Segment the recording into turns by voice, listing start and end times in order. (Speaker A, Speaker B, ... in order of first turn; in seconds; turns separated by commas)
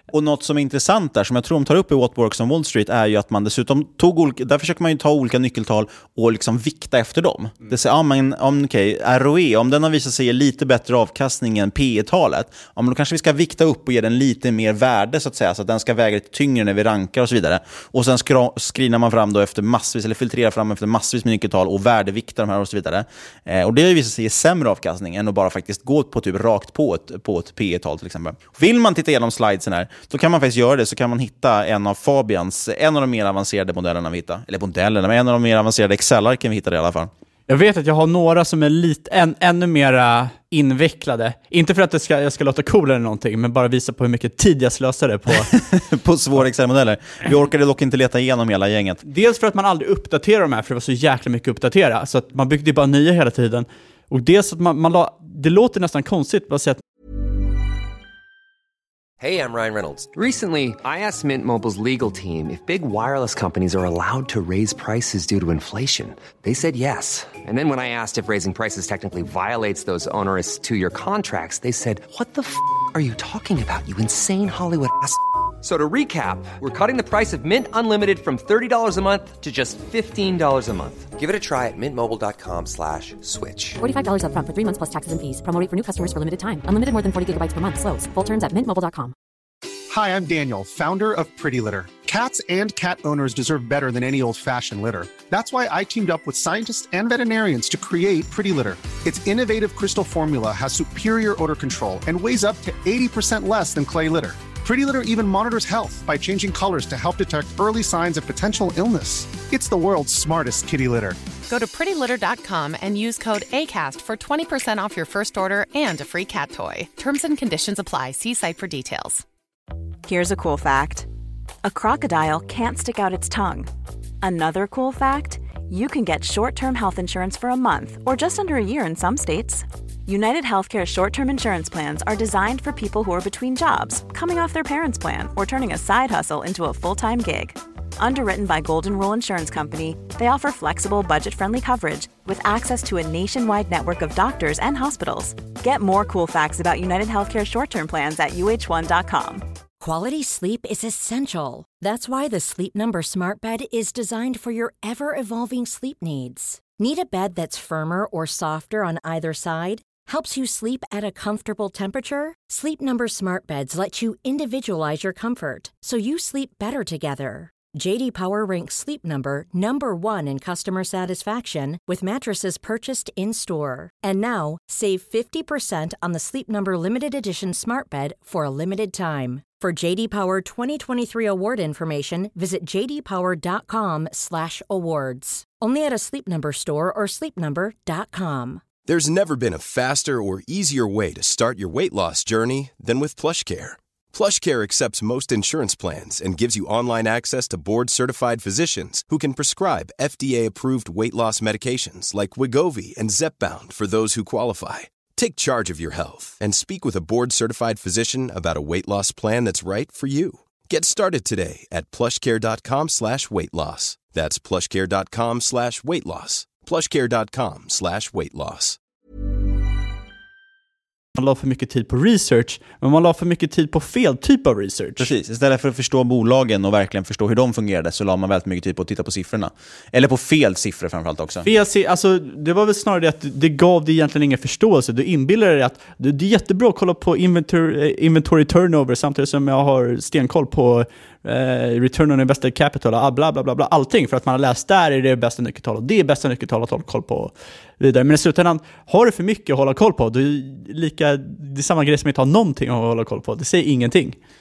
Speaker A: 0.1-37.1, Speaker B: 37.5-45.5, Speaker A: 45.5-49.0, Speaker B: 49.0-56.8, Speaker C: 59.2-83.8, Speaker D: 83.8-89.1, Speaker E: 89.9-111.2, Speaker F: 111.5-119.2, Speaker G: 120.0-121.1, Speaker G: 121.6-123.7, Speaker G: 124.2-149.4, Speaker H: 149.8-188.6, Speaker I: 188.8-218.8, Speaker B: 221.2-225.1, Speaker A: 225.0-231.5, Speaker B: 231.4-254.2